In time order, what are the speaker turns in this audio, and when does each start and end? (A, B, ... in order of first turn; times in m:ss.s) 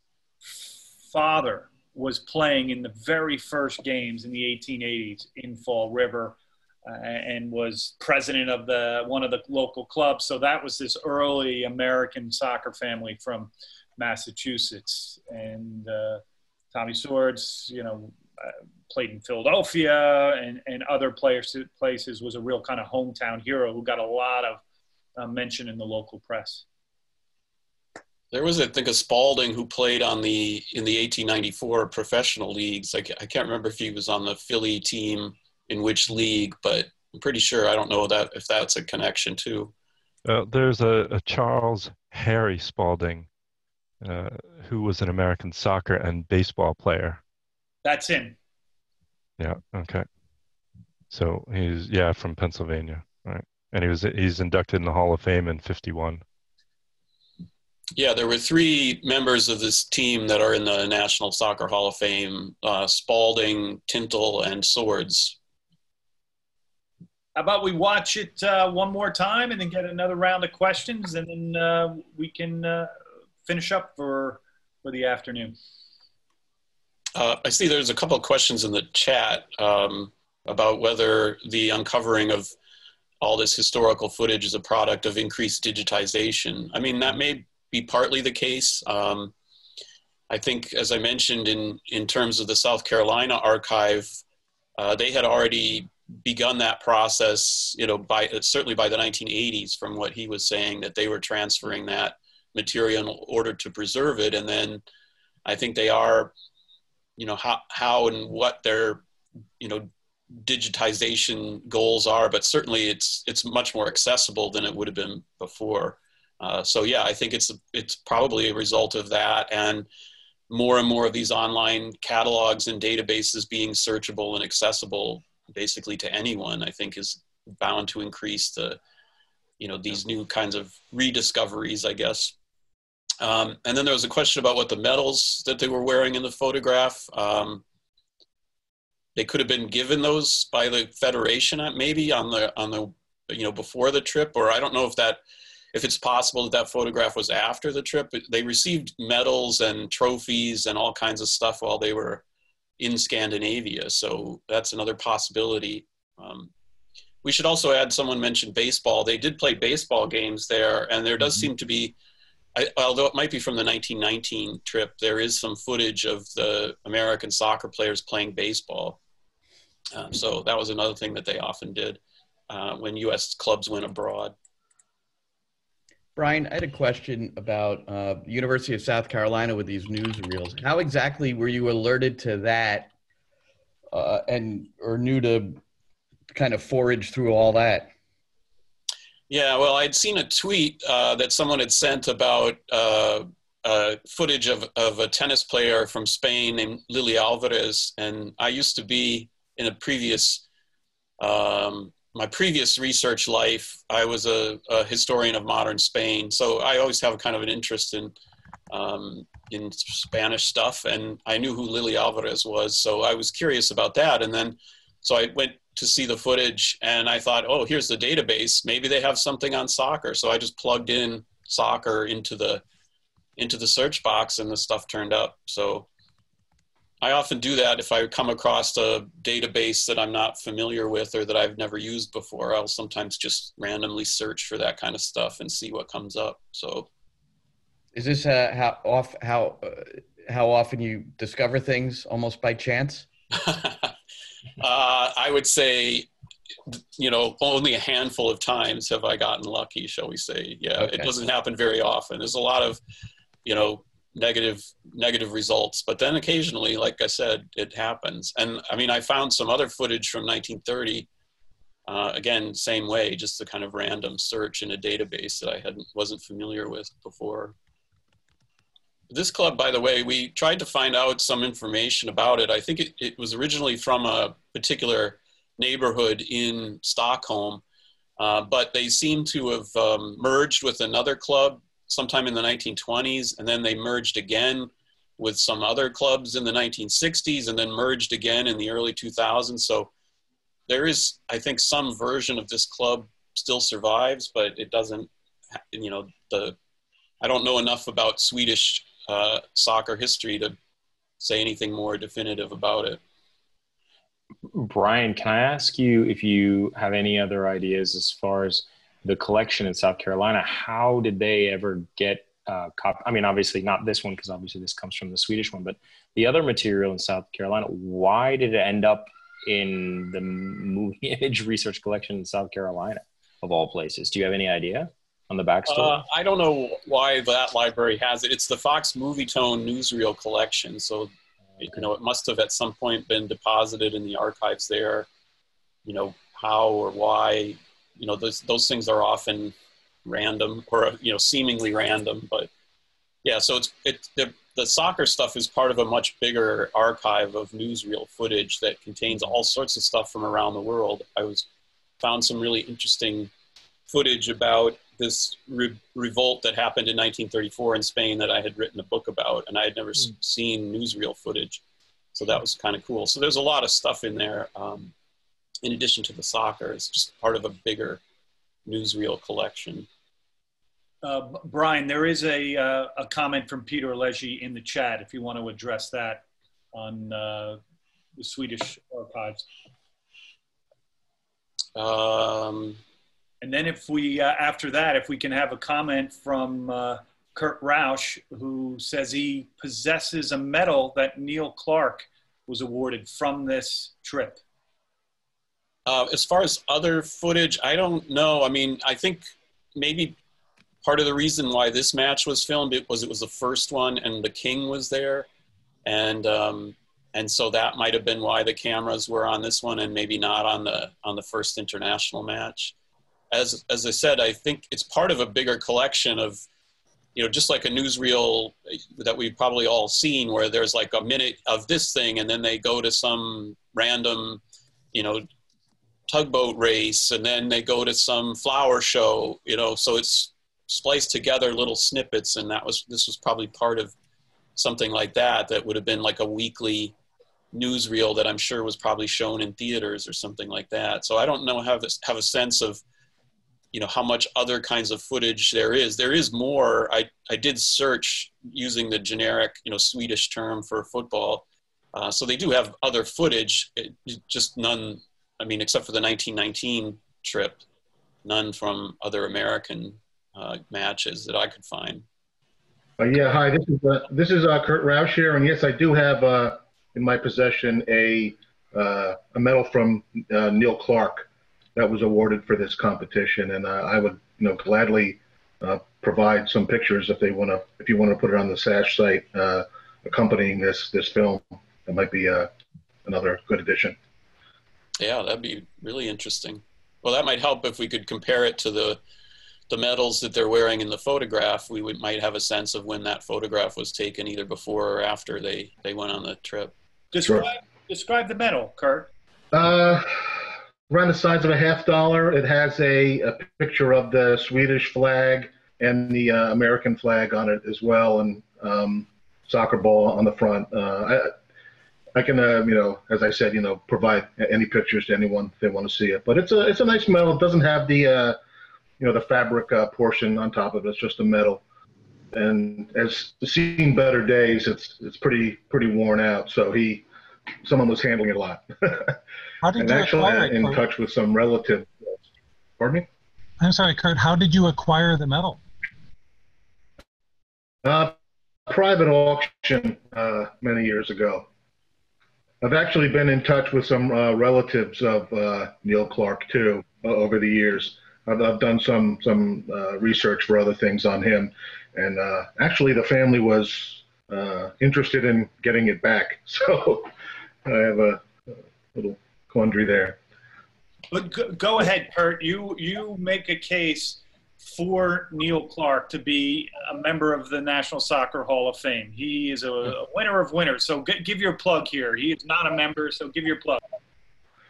0:00.4-0:24.6 A
0:25.2-0:26.6 A
0:28.3-0:39.7 B
0:40.2-0:43.3 C
0:44.0-0:47.2 C
0:47.8-0:48.4 A
0:49.4-0:50.0 C
0:51.1-0:56.2 C
0:57.9-1:05.4 B
1:07.3-1:12.9 A
1:13.4-1:15.6 A
1:17.1-1:22.5 B
1:23.2-1:29.3 B
1:30.3-1:34.2 B
1:34.8-1:44.8 B
1:45.4-1:46.3 B
1:47.2-1:49.0 B
1:49.6-1:59.9 B
2:00.5-2:08.8 B
2:09.6-2:12.3 B
2:13.2-2:17.6 B
2:19.1-2:25.2 B
2:25.7-2:32.2 B
2:32.8-2:36.5 B
2:37.2-2:41.9 B
2:42.5-2:49.0 B
2:49.9-2:54.3 B
2:56.2-3:02.9 D
3:03.9-3:05.6 D
3:06.3-3:07.9 D
3:09.3-3:20.4 B
3:21.2-3:28.2 B
3:28.7-3:42.6 B
3:43.4-3:45.9 B
3:47.0-3:56.9 B
3:57.9-4:03.0 D
4:03.3-4:03.9 B
4:04.6-4:06.1 B
4:06.7-4:12.8 B
4:13.4-4:21.1 B
4:21.8-4:27.5 B
4:29.1-4:37.6 B
4:38.2-4:49.9 B
4:50.7-4:55.1 B
4:55.7-4:56.6 B
4:57.2-5:00.6 B
5:01.2-5:03.0 B
5:04.5-5:26.0 E
5:25.6-5:35.1 B
5:35.8-5:39.5 B
5:40.0-5:42.5 B
5:43.2-5:51.4 B
5:52.0-5:53.3 B
5:53.9-6:01.6 B
6:02.1-6:04.9 B
6:05.6-6:08.0 B
6:08.6-6:09.9 B
6:11.0-6:17.6 A
6:18.2-6:19.4 A
6:21.7-6:22.8 B
6:23.4-6:34.4 A
6:35.8-6:40.2 B
6:40.8-6:45.3 B
6:45.8-6:52.7 B
6:53.3-6:56.4 B
6:57.1-7:04.4 B
7:04.9-7:05.2 B
7:06.1-7:13.9 B
7:14.6-7:16.9 B
7:17.5-7:22.8 B
7:23.7-7:37.6 B
7:38.2-7:42.0 B
7:43.0-8:02.5 F
8:03.0-8:04.0 F
8:05.0-8:09.0 B
8:09.7-8:16.7 B
8:17.1-8:19.1 A
8:19.5-8:20.4 F
8:20.9-8:31.3 F
8:32.1-8:38.4 F
8:39.0-8:41.6 F
8:42.3-8:47.0 F
8:47.6-8:49.2 F
8:49.6-8:50.8 G
8:49.8-8:52.1 F
8:52.8-8:53.1 F
8:53.6-8:55.6 G
8:57.8-8:58.2 F
8:58.7-9:01.4 F
9:02.6-9:17.1 F
9:17.6-9:18.2 F
9:18.9-9:20.2 F
9:21.1-9:33.8 A